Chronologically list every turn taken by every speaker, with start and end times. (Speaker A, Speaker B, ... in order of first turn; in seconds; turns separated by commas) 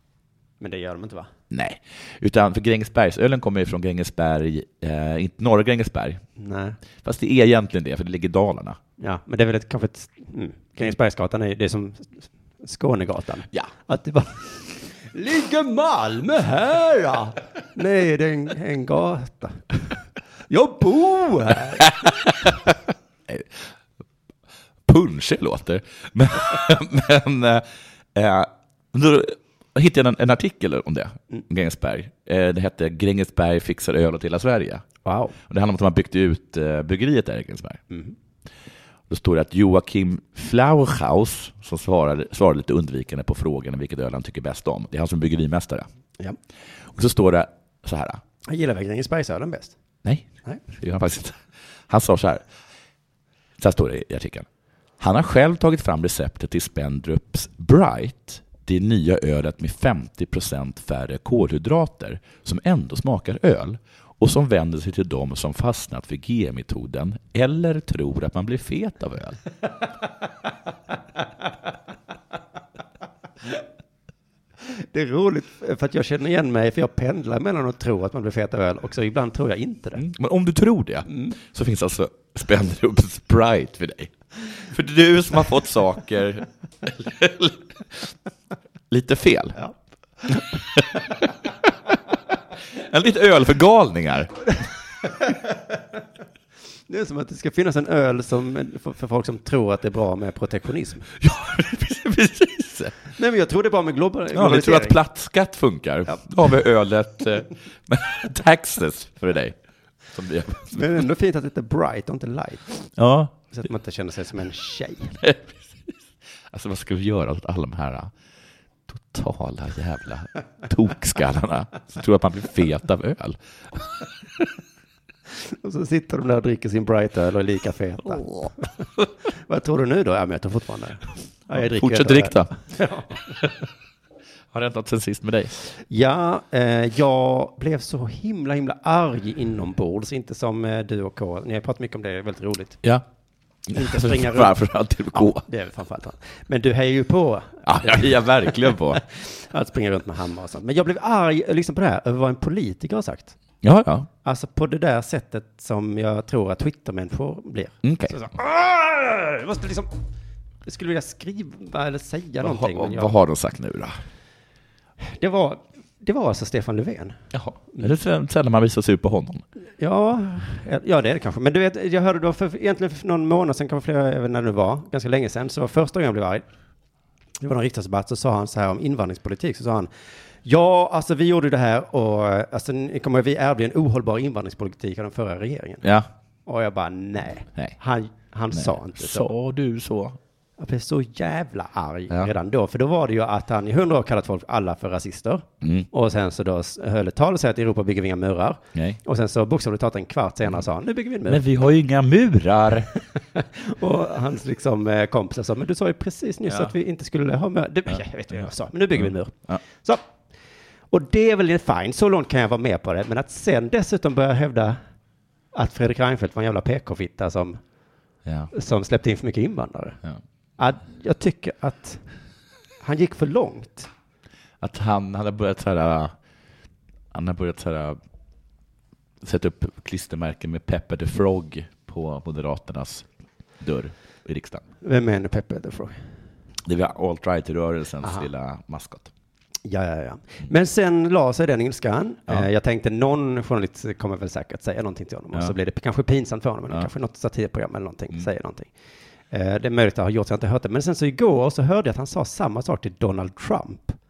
Speaker A: 0.6-1.3, Speaker B: 1.5-6.2, Speaker A: 6.4-6.8, Speaker B: 7.0-8.8, Speaker A: 9.0-19.8, Speaker A: 20.5-22.1, Speaker B: 22.0-22.5, Speaker B: 23.3-23.7, Speaker B: 24.9-34.8, Speaker A: 35.0-35.3, Speaker B: 35.4-37.8, Speaker B: 39.1-45.9, Speaker B: 46.9-48.2, Speaker A: 48.5-49.8, Speaker B: 50.0-52.4, Speaker B: 53.6-54.5, Speaker B: 55.0-69.4, Speaker A: 74.6-80.0, Speaker B: 80.0-88.1, Speaker B: 88.9-89.6, Speaker B: 92.7-94.4, Speaker A: 95.0-95.5, Speaker A: 96.9-101.1, Speaker B: 101.2-102.9, Speaker A: 103.1-105.0, Speaker B: 104.3-109.6, Speaker B: 110.1-110.9, Speaker A: 110.7-112.8, Speaker B: 113.0-113.4, Speaker A: 113.5-115.2, Speaker B: 115.2-115.9, Speaker B: 116.5-118.1, Speaker B: 118.9-123.9, Speaker A: 125.3-128.7, Speaker B: 128.2-128.5, Speaker A: 129.3-133.4, Speaker B: 131.5-132.5, Speaker B: 134.5-135.6, Speaker A: 135.7-142.8, Speaker B: 143.7-145.4, Speaker A: 143.7-144.6, Speaker A: 145.1-153.3, Speaker B: 147.6-149.0, Speaker B: 153.6-154.1, Speaker A: 154.2-159.9, Speaker B: 157.8-158.1, Speaker A: 160.7-163.1, Speaker B: 162.4-163.9, Speaker A: 165.0-167.2, Speaker B: 167.3-169.4, Speaker A: 169.8-176.4, Speaker A: 177.4-179.9, Speaker A: 180.4-185.8, Speaker B: 185.8-186.1, Speaker A: 186.4-189.3, Speaker B: 188.5-190.2, Speaker A: 190.6-201.4, Speaker B: 195.6-195.9, Speaker B: 198.7-199.0, Speaker B: 201.2-202.9, Speaker A: 203.3-210.0, Speaker A: 210.9-214.8, Speaker A: 215.5-217.6, Speaker B: 218.2-218.5, Speaker A: 218.5-220.0, Speaker A: 220.6-222.0, Speaker A: 222.8-223.9, Speaker B: 224.6-226.1, Speaker B: 227.1-228.0, Speaker B: 229.2-233.1, Speaker B: 233.6-234.6, Speaker A: 234.8-236.0, Speaker B: 236.6-239.1, Speaker A: 239.6-248.7, Speaker A: 249.3-254.0